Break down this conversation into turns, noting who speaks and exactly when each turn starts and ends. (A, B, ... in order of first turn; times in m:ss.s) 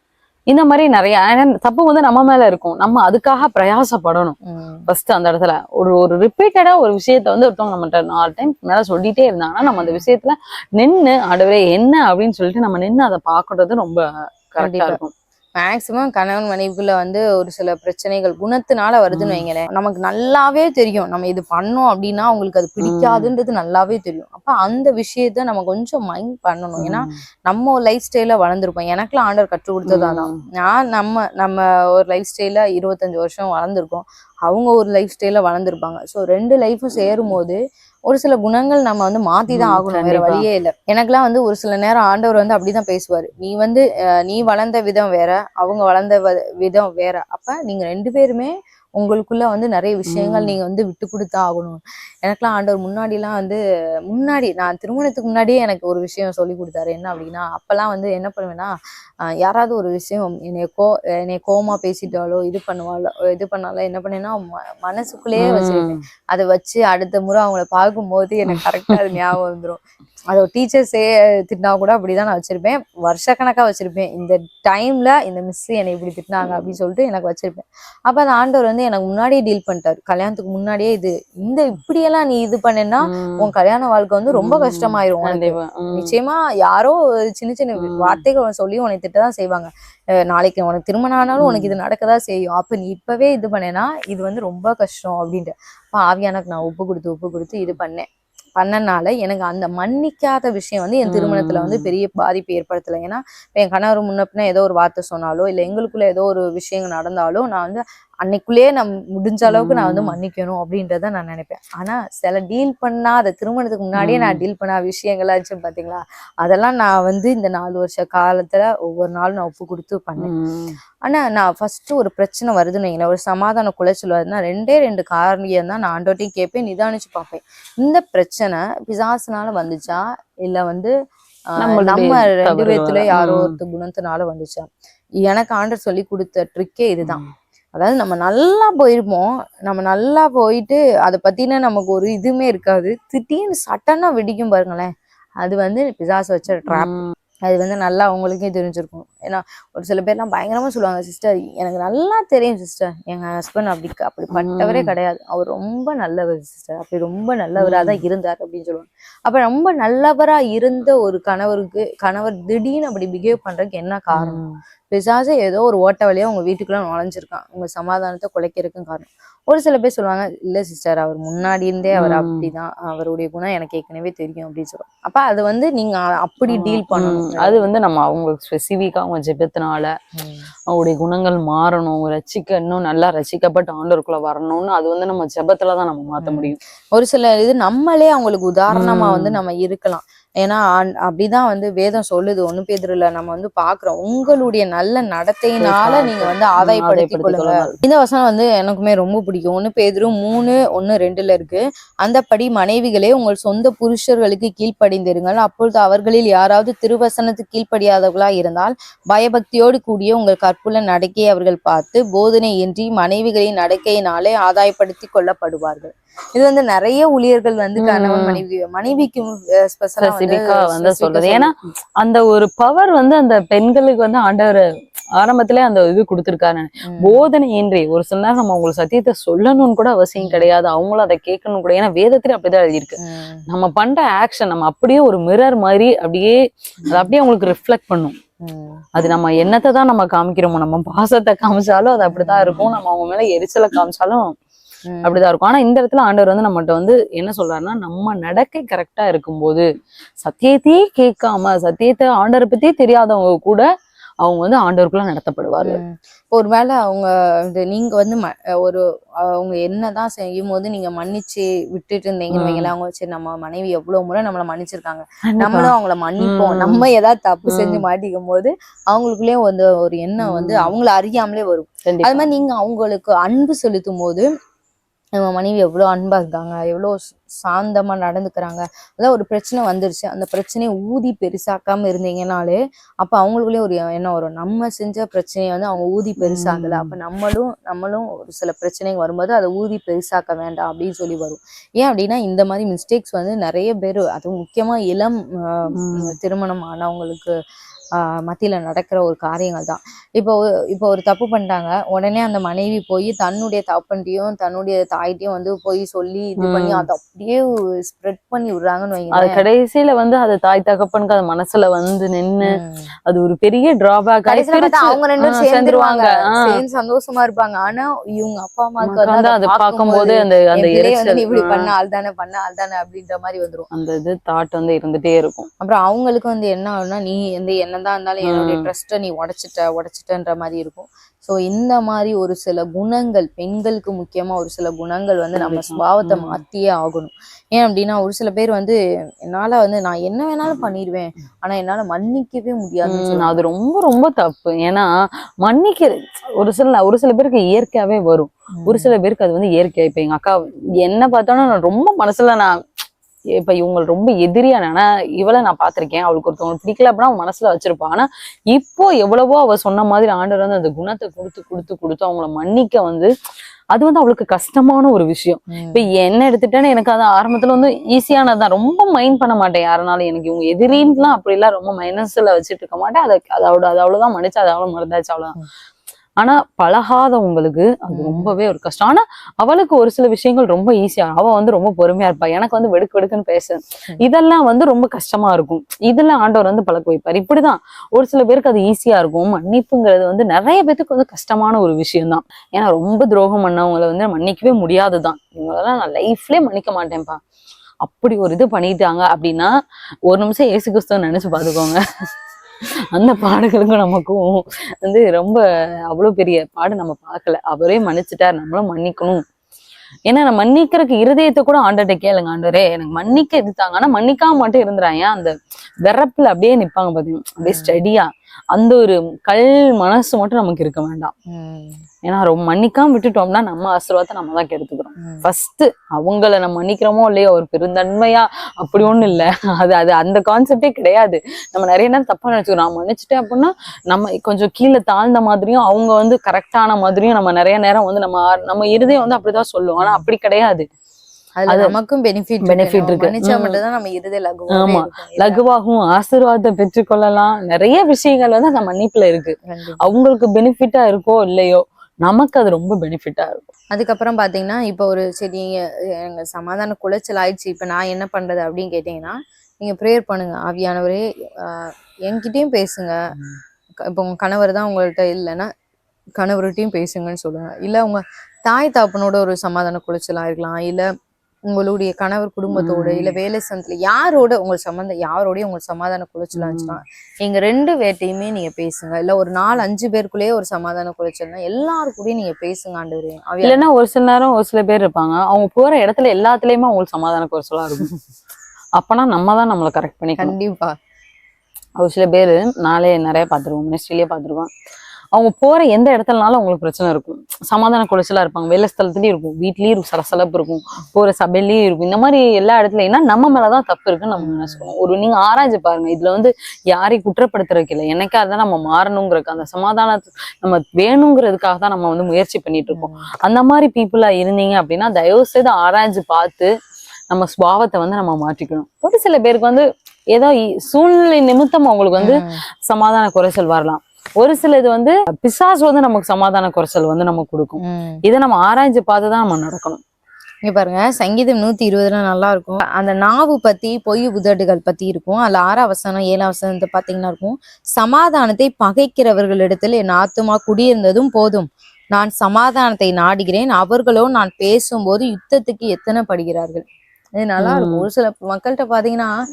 0:00.5-0:04.4 A
0:04.4-0:04.9 B
0:04.9-0:15.1 A
0:14.6-0:15.0 B
0:15.6-0:53.6 B
0:19.1-0:19.4 A
0:22.8-0:23.3 A
0:26.8-0:27.2 A
0:29.9-0:30.4 A
0:39.5-0:40.4 A
0:50.1-0:50.6 A
0:54.1-0:58.7 B
0:59.4-1:09.8 B
1:05.4-1:06.0 A
1:08.5-1:09.2 A
1:10.3-1:38.1 B
1:23.1-1:23.5 A
1:24.3-1:26.1 A
1:27.8-1:28.2 A
1:31.4-1:31.8 A
1:38.6-2:00.3 B
1:41.1-1:41.9 A
1:49.4-1:50.2 A
1:53.9-1:54.4 A
2:00.2-2:00.8 A
2:01.0-2:10.9 B
2:11.6-2:14.7 B
2:11.6-2:13.6 A
2:15.2-2:17.2 B
2:17.0-2:17.3 A
2:17.7-2:57.6 B
2:26.7-2:27.1 A
2:34.3-2:34.9 A
2:37.6-2:38.0 A
2:44.1-2:44.6 A
2:51.9-2:52.5 A
2:56.5-2:59.9 A
3:00.2-3:00.5 B
3:00.7-3:06.6 A
3:06.2-3:41.5 B
3:08.7-3:09.4 A
3:15.6-3:17.7 A
3:37.8-3:38.4 A
3:40.0-3:44.6 A
3:45.2-3:58.2 A
3:46.9-3:47.3 B
3:50.2-3:50.5 B
3:53.0-3:53.4 B
3:58.4-3:58.9 B
3:58.9-4:04.3 A
4:02.0-4:02.8 B
4:04.9-4:05.2 B
4:05.0-4:09.6 A
4:10.2-4:13.6 A
4:14.2-4:15.8 A
4:15.6-4:34.2 B
4:22.3-4:22.7 A
4:25.3-4:26.8 A
4:27.5-4:27.8 A
4:30.2-4:30.7 A
4:31.9-4:32.2 A
4:35.2-4:57.3 B
4:46.2-4:46.9 A
4:55.8-4:56.1 A
4:58.0-5:09.4 B
5:06.4-5:06.9 A
5:09.1-5:16.6 A
5:12.5-5:12.9 B
5:14.3-5:23.7 B
5:18.8-5:21.7 A
5:23.7-5:25.5 A
5:25.6-5:43.4 B
5:28.2-5:28.7 A
5:35.4-5:36.4 A
5:42.9-5:44.9 A
5:45.4-5:52.5 A
5:48.6-5:48.9 B
5:53.4-6:03.1 A
6:03.7-6:15.3 A
6:05.5-6:05.8 B
6:16.2-6:37.2 A
6:17.9-6:18.4 B
6:37.8-6:39.5 A
6:40.1-6:41.8 A
6:43.0-6:49.2 A
6:50.1-6:55.3 A
6:55.8-7:01.1 A
6:57.4-6:57.8 B
7:01.3-7:01.8 B
7:02.0-7:20.7 A
7:05.0-7:05.3 B
7:19.8-7:20.0 B
7:21.4-7:25.4 B
7:21.5-7:21.8 A
7:22.4-7:23.6 A
7:24.5-7:33.4 A
7:29.5-7:29.8 B
7:33.7-7:43.0 B
7:43.9-7:45.5 B
7:46.2-7:50.8 B
7:51.5-8:03.7 B
7:52.5-7:53.1 A
7:56.4-7:56.8 A
8:03.4-8:07.9 A
8:08.8-8:10.3 A
8:10.2-8:10.7 B
8:11.8-8:14.5 A
8:15.1-8:36.5 A
8:24.2-8:24.7 B
8:32.7-8:33.0 B
8:37.1-8:49.8 A
8:42.0-8:42.4 B
8:47.6-8:48.0 B
8:50.4-9:06.6 B
9:07.2-9:09.1 B
9:07.4-9:07.9 A